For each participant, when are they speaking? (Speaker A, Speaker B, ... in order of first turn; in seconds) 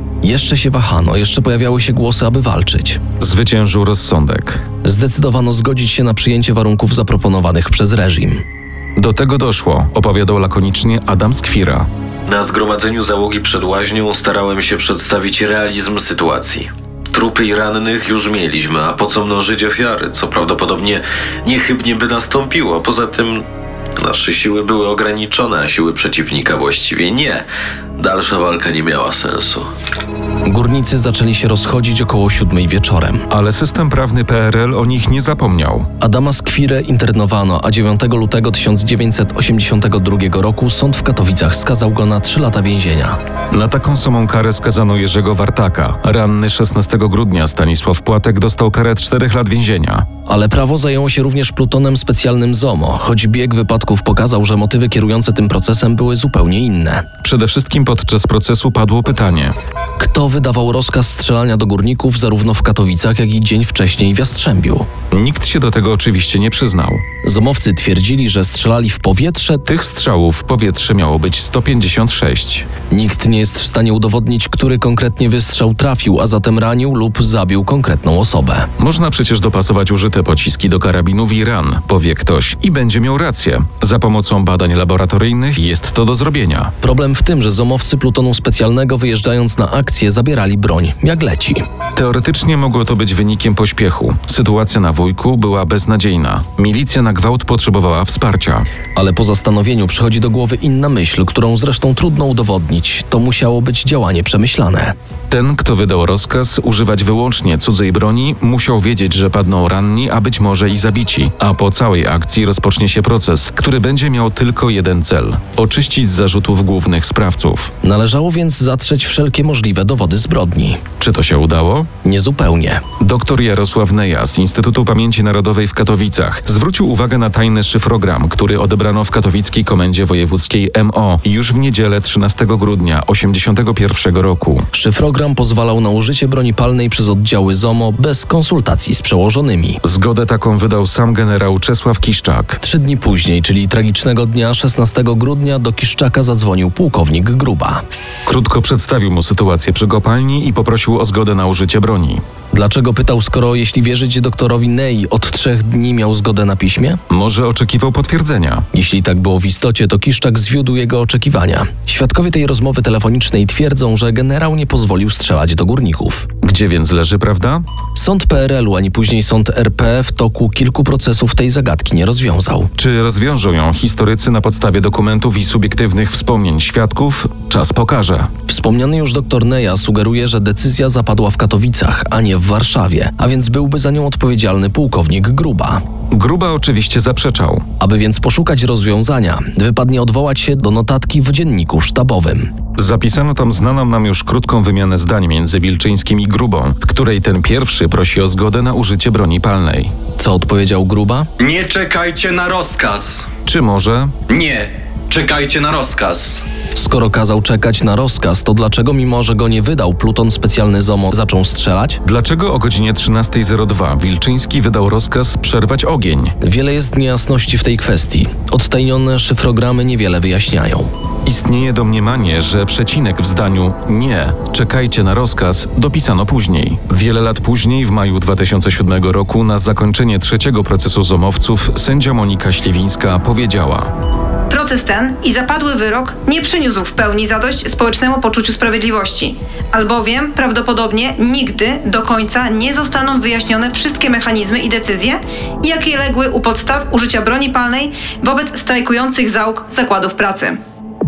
Speaker A: 0.2-3.0, 4.8-8.4, 30.4-33.2, 36.0-43.2, 50.2-57.0, 60.0-64.9, 67.2-69.7, 72.9-78.7, 86.8-91.7, 98.9-104.9, 117.8-120.8, 122.0-122.8, 134.7-139.8, 142.6-147.8, 152.5-157.0, 158.7-166.3, 167.9-172.7, 178.5-185.8, 187.8-192.5, 200.2-201.3, 206.8-212.0, 216.4-220.9
Speaker B: 3.2-4.6, 9.0-11.9, 33.3-35.9, 43.5-50.1, 57.2-59.5, 65.1-67.0, 69.7-72.7, 78.8-86.7, 92.0-98.7, 105.3-117.7, 121.0-121.9, 123.0-134.7, 139.8-142.6, 148.2-152.2, 157.1-158.7, 166.4-167.6, 172.7-178.3, 186.1-187.6, 192.8-199.9, 203.4-204.2, 212.0-216.3, 221.2-233.9
Speaker C: 12.3-23.4, 24.0-27.4, 28.0-29.7
Speaker D: 201.4-203.3, 204.3-206.4
Speaker E: 234.5-250.6